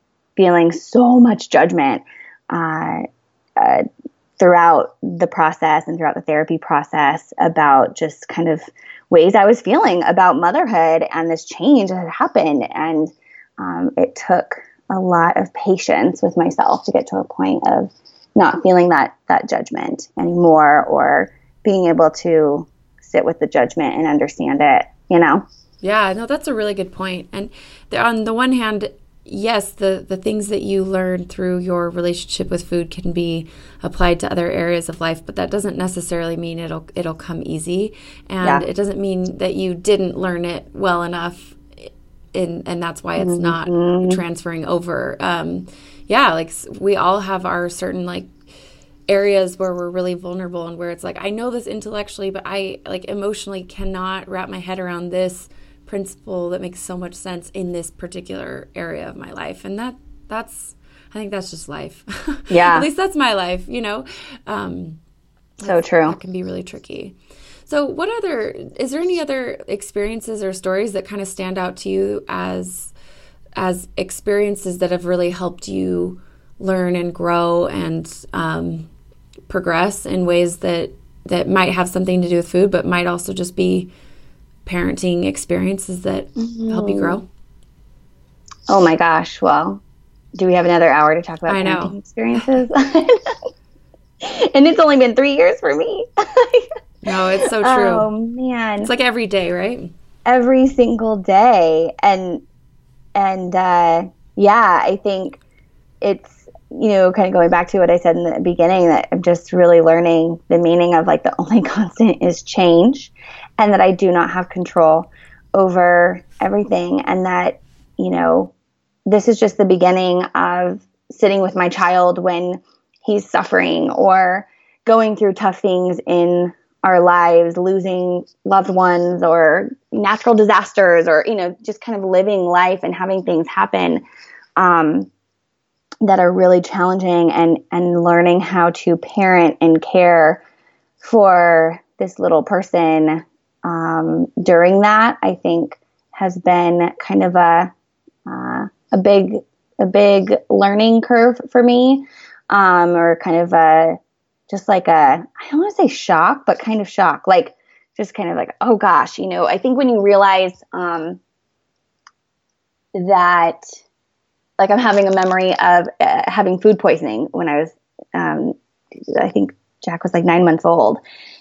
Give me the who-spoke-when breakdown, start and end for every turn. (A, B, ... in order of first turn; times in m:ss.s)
0:00.4-0:03.0 A
0:03.6-0:03.8 A
0:04.4-0:25.4 A
0:25.8-0:48.3 B
0:43.2-0:44.2 A
0:49.1-1:05.0 B
1:02.5-1:02.8 A
1:05.6-1:07.1 B
1:05.6-1:06.2 A
1:07.6-1:12.9 B
1:13.6-1:18.9 B
1:19.5-1:23.9 B
1:24.6-1:27.3 B
1:26.4-1:27.2 A
1:28.7-1:29.8 A
1:30.4-1:33.3 A
1:31.5-1:32.0 B
1:34.2-1:38.9 A
1:37.0-1:38.1 B
1:38.8-1:39.9 B
1:40.2-1:42.4 A
1:43.1-1:45.4 A
1:46.0-1:58.5 A
1:59.0-2:14.0 A
2:14.6-2:15.1 A
2:16.0-2:20.4 A
2:21.0-2:27.7 A
2:28.2-2:34.0 A
2:34.5-2:41.2 A
2:42.9-2:43.6 A
2:44.6-2:48.5 A
2:49.1-2:51.0 A